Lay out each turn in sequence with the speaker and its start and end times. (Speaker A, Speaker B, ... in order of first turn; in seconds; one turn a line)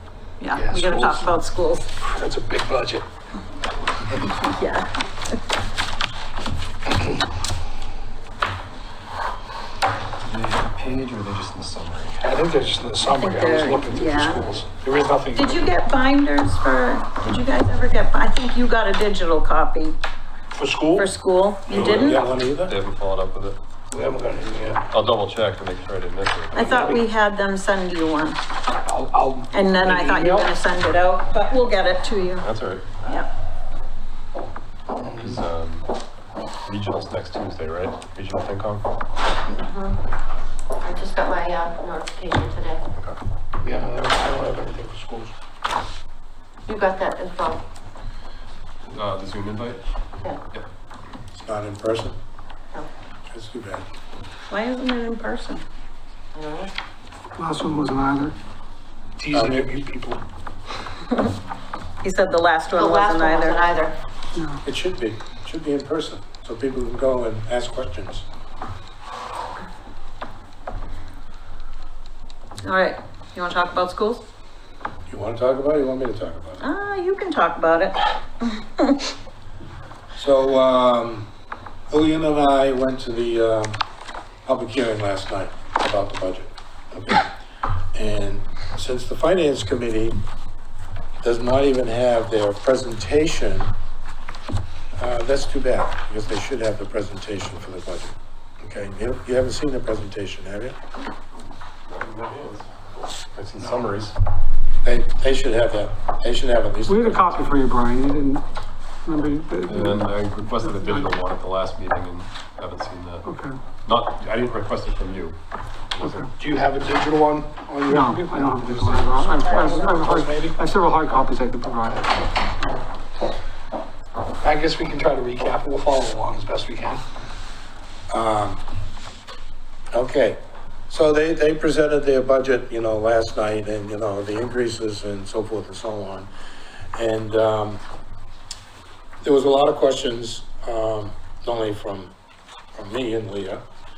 Speaker A: 0.4-1.9
Speaker B: 0.5-1.4
Speaker B: 2.0-3.1
Speaker A: 4.4-4.9
Speaker C: 10.3-12.2
Speaker B: 12.2-15.7
Speaker A: 13.2-14.5
Speaker A: 15.3-20.0
Speaker B: 20.5-21.1
Speaker A: 21.0-22.2
Speaker B: 21.7-22.3
Speaker C: 21.7-23.6
Speaker D: 21.7-22.7
Speaker B: 23.9-24.9
Speaker C: 24.9-26.6
Speaker A: 26.5-28.4
Speaker B: 26.6-27.1
Speaker B: 28.9-30.5
Speaker A: 29.5-32.5
Speaker C: 32.4-32.9
Speaker B: 34.9-35.4
Speaker C: 35.2-35.9
Speaker C: 36.6-38.9
Speaker E: 39.6-40.0
Speaker E: 40.8-42.8
Speaker B: 43.6-45.3
Speaker E: 46.7-47.6
Speaker C: 48.9-49.8
Speaker D: 51.3-52.2
Speaker D: 53.3-53.9
Speaker A: 54.5-55.6
Speaker E: 56.3-56.7
Speaker F: 57.4-58.4
Speaker B: 59.2-60.2
Speaker D: 59.3-59.7
Speaker A: 62.0-63.7
Speaker E: 62.8-64.0
Speaker F: 64.3-64.6
Speaker D: 64.6-68.3
Speaker A: 72.6-74.2
Speaker D: 75.1-76.6
Speaker A: 76.6-78.0
Speaker D: 80.2-81.3
Speaker D: 81.9-83.8
Speaker D: 84.5-87.3
Speaker D: 88.0-90.2
Speaker D: 91.2-93.7
Speaker D: 95.0-100.8
Speaker C: 101.9-102.7
Speaker C: 103.3-104.1
Speaker B: 103.6-103.9
Speaker D: 104.8-107.5
Speaker F: 106.9-108.4
Speaker F: 109.1-111.1
Speaker C: 109.7-113.2
Speaker F: 113.2-113.6
Speaker C: 113.8-115.4
Speaker C: 115.9-116.3
Speaker F: 116.0-116.3
Speaker B: 116.4-120.7
Speaker F: 117.9-122.8
Speaker B: 124.4-127.0
Speaker D: 128.1-128.6
Speaker D: 129.9-136.3
Speaker D: 136.9-137.8
Speaker D: 139.2-142.1
Speaker D: 142.8-143.6